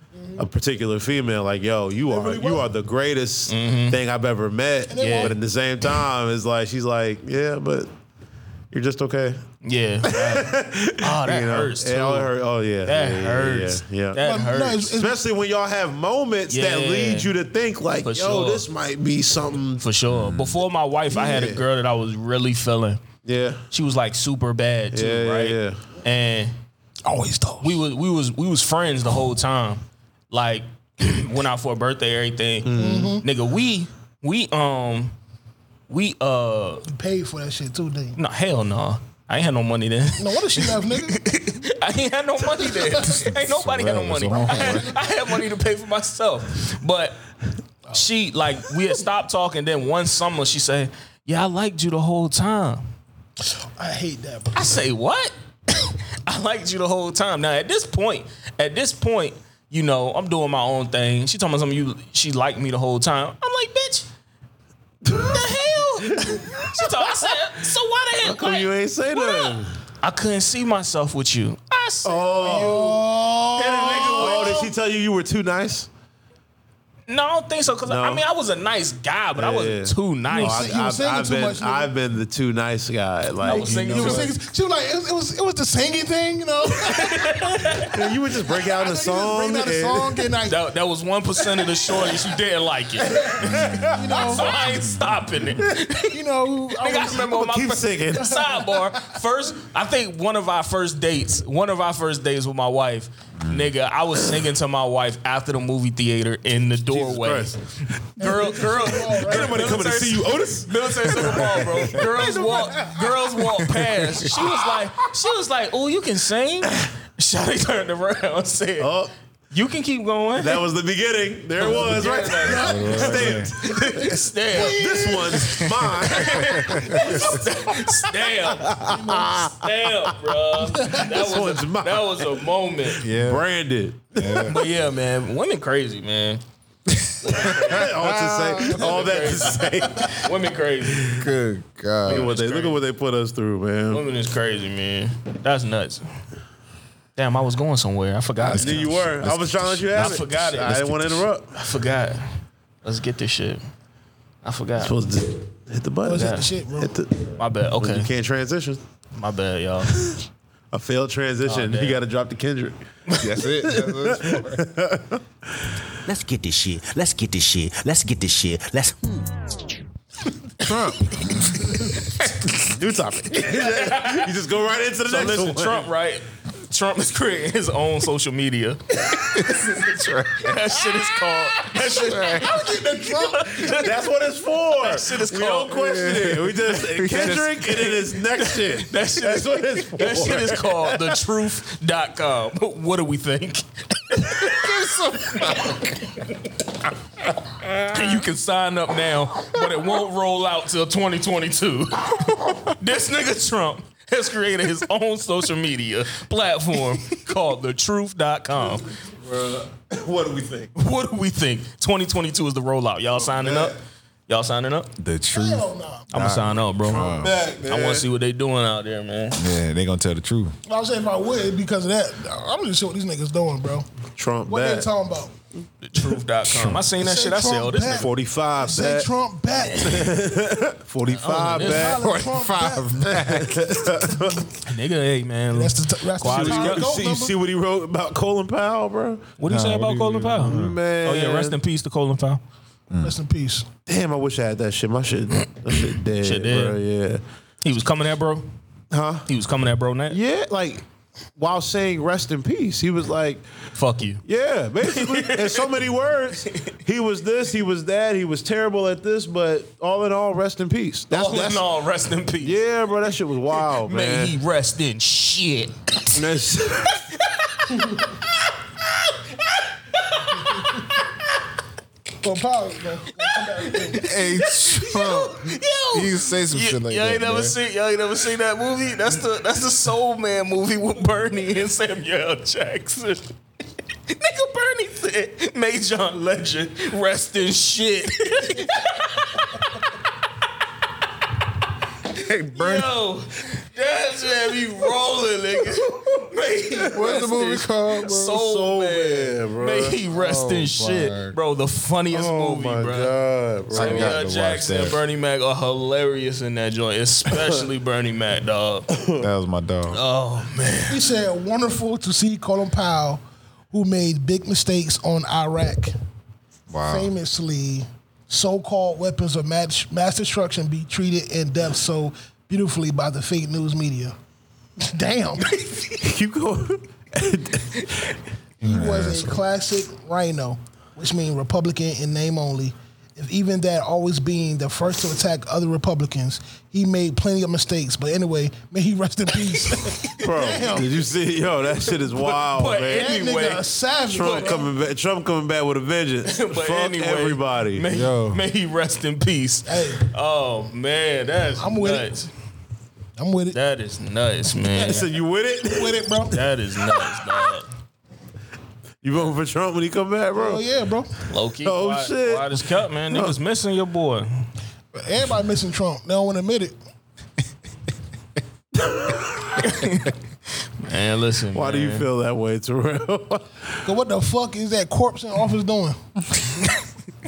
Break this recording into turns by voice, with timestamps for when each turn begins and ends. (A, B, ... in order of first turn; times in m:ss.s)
0:00.2-0:00.4 A
0:00.4-0:07.9 B
0:02.1-0:02.7 A
0:03.5-0:04.0 C
0:04.9-0:05.4 A
0:08.7-0:09.4 B
0:09.6-0:12.3 C
0:10.0-0:14.2 B
0:12.8-0:14.9 C
0:14.2-0:15.2 A
0:14.9-0:19.8 B
0:16.5-0:17.3 C
0:18.0-0:18.6 C
0:19.8-0:23.0 C
0:20.1-0:20.6 D
0:21.1-0:21.6 B
0:23.2-0:23.6 B
0:23.7-0:26.5 C
0:24.9-0:25.8 B
0:27.0-0:27.8 A
0:27.6-0:35.1 C
0:32.6-0:33.2 B
0:32.7-0:33.2 A
0:35.9-0:36.8 C
0:36.8-0:38.2 A
0:38.2-0:47.2 C
0:40.2-0:41.2 A
0:42.6-0:43.2 A
0:43.0-0:44.9 D
0:44.3-0:45.0 A
0:47.9-0:52.8 C
0:53.8-0:54.8 A
0:54.5-1:04.0 C
1:05.0-1:07.2 B
1:05.1-1:13.0 C
1:08.2-1:09.8 B
1:12.0-1:13.0 B
1:12.4-1:14.6 A
1:13.6-1:14.7 C
1:13.6-1:15.9 B
1:17.1-1:20.7 C
1:17.8-1:18.2 B
1:19.4-1:24.3 B
1:20.3-1:21.9 A
1:23.4-1:24.3 C
1:23.4-1:27.4 A
1:26.8-1:27.9 C
1:27.9-1:30.3 B
1:28.6-1:30.6 A
1:30.5-1:36.2 C
1:33.2-1:34.5 A
1:33.4-1:35.2 D
1:33.5-1:34.3 B
1:36.1-1:37.3 A
1:36.7-1:47.6 C
1:37.2-1:38.4 B
1:38.3-1:39.1 A
1:43.4-1:43.7 D
1:46.8-1:47.5 B
1:48.2-1:58.9 C
1:48.2-1:49.8 A
1:48.2-1:53.1 B
1:52.3-1:52.9 A
1:58.8-1:59.1 B
1:59.5-2:00.6 C
2:00.4-2:06.7 B
2:01.6-2:08.8 C
2:01.7-2:03.4 A
2:02.6-2:03.5 D
2:04.5-2:05.4 A
2:06.2-2:07.4 D
2:08.6-2:09.9 B
2:08.9-2:09.4 A
2:09.6-2:13.0 C
2:10.7-2:11.1 A
2:11.0-2:12.4 B
2:13.0-2:13.5 D
2:13.0-2:14.5 B
2:14.1-2:14.6 D
2:14.5-2:16.4 C
2:17.2-2:17.9 C
2:17.2-2:18.7 D
2:17.4-2:20.3 B
2:18.6-2:21.1 C
2:20.9-2:21.2 B
2:21.1-2:22.3 D
2:22.0-2:24.0 B
2:22.0-2:22.8 C
2:23.9-2:26.0 C
2:27.2-2:29.3 C
2:28.4-2:31.5 B
2:28.6-2:30.2 D
2:29.9-2:32.2 C
2:32.8-2:33.6 C
2:34.4-2:35.0 C
2:34.8-2:38.8 B
2:36.0-2:36.9 A
2:36.2-2:36.4 C
2:37.4-2:38.1 C
2:39.2-2:40.0 C
2:40.7-2:42.8 B
2:41.4-2:42.0 C
2:43.2-2:44.6 D
2:43.4-2:45.2 B
2:46.0-2:49.2 E
2:50.6-2:52.3 D
2:52.6-2:55.9 B
2:53.4-2:54.3 C
2:55.0-3:04.0 C
2:59.3-3:01.0 D
3:01.7-3:02.5 D
3:02.4-3:03.7 A
3:03.6-3:11.2 B
3:04.7-3:06.1 C
3:05.7-3:08.0 D
3:08.4-3:15.8 C
3:14.4-3:15.9 D
3:17.9-3:28.8 C
3:29.1-3:30.7 B
3:30.8-3:33.8 C
3:33.2-3:33.8 B
3:34.3-3:34.9 C
3:35.0-3:37.4 D
3:35.3-3:36.1 A
3:36.1-3:37.1 C
3:36.8-3:38.1 B
3:37.6-3:39.4 C
3:39.3-3:40.5 D
3:40.7-3:43.8 A
3:44.2-3:44.9 B
3:44.4-3:45.3 A
3:45.8-3:48.1 C
3:47.0-3:50.0 A
3:47.9-3:49.1 B
3:49.8-3:52.2 B
3:51.1-3:52.0 C
3:51.6-3:52.9 A
3:52.0-3:54.2 D
3:53.0-3:54.4 B
3:54.6-3:56.9 C
3:55.5-3:57.3 A
3:56.2-3:59.3 B
3:59.4-4:02.4 C
3:59.5-4:00.8 D
4:00.4-4:01.6 B
4:03.0-4:03.7 A
4:03.8-4:07.2 B
4:05.8-4:06.8 C
4:07.6-4:08.4 C
4:08.9-4:09.3 B
4:09.3-4:10.2 C
4:10.1-4:10.8 B
4:11.4-4:13.4 B
4:13.8-4:14.2 C
4:14.2-4:21.6 B
4:14.8-4:15.7 C
4:21.1-4:22.6 C
4:22.4-4:24.3 B
4:23.8-4:26.2 C
4:26.1-4:27.0 B
4:27.3-4:28.0 C
4:30.0-4:31.0 C
4:32.2-4:34.1 A
4:33.2-4:43.3 C
4:34.0-4:37.6 D
4:44.1-4:49.6 C
4:52.1-4:52.9 D
4:52.5-5:03.1 C
4:56.9-4:58.4 D
4:58.2-5:00.0 B
5:00.1-5:01.4 D
5:02.1-5:04.2 B
5:03.7-5:05.0 D
5:03.7-5:08.9 C
5:08.9-5:09.2 B
5:09.2-5:10.0 D
5:09.9-5:11.0 C
5:10.9-5:15.9 A
5:16.7-5:17.1 D
5:16.9-5:24.2 A
5:24.8-5:25.5 A
5:25.6-5:25.8 C
5:25.9-5:28.1 B
5:28.6-5:29.4 D
5:28.6-5:40.9 A
5:40.2-5:43.2 B
5:41.8-5:44.6 C
5:42.9-5:44.7 A
5:44.1-5:47.8 B
5:46.3-5:52.3 C
5:47.9-5:48.4 D
5:49.6-5:50.0 A
5:51.6-5:52.1 A
5:53.2-5:53.6 A
5:53.5-5:55.1 C
5:54.7-5:56.3 B
5:55.7-5:56.3 A
5:56.3-5:57.7 C
5:56.9-5:57.2 B
5:59.0-6:00.6 B
6:00.3-6:01.1 A
6:01.3-6:04.3 C
6:01.6-6:03.4 B
6:04.9-6:06.7 A
6:08.7-6:09.6 B
6:09.6-6:10.1 C
6:10.8-6:12.1 C
6:11.5-6:13.6 B
6:13.8-6:16.0 A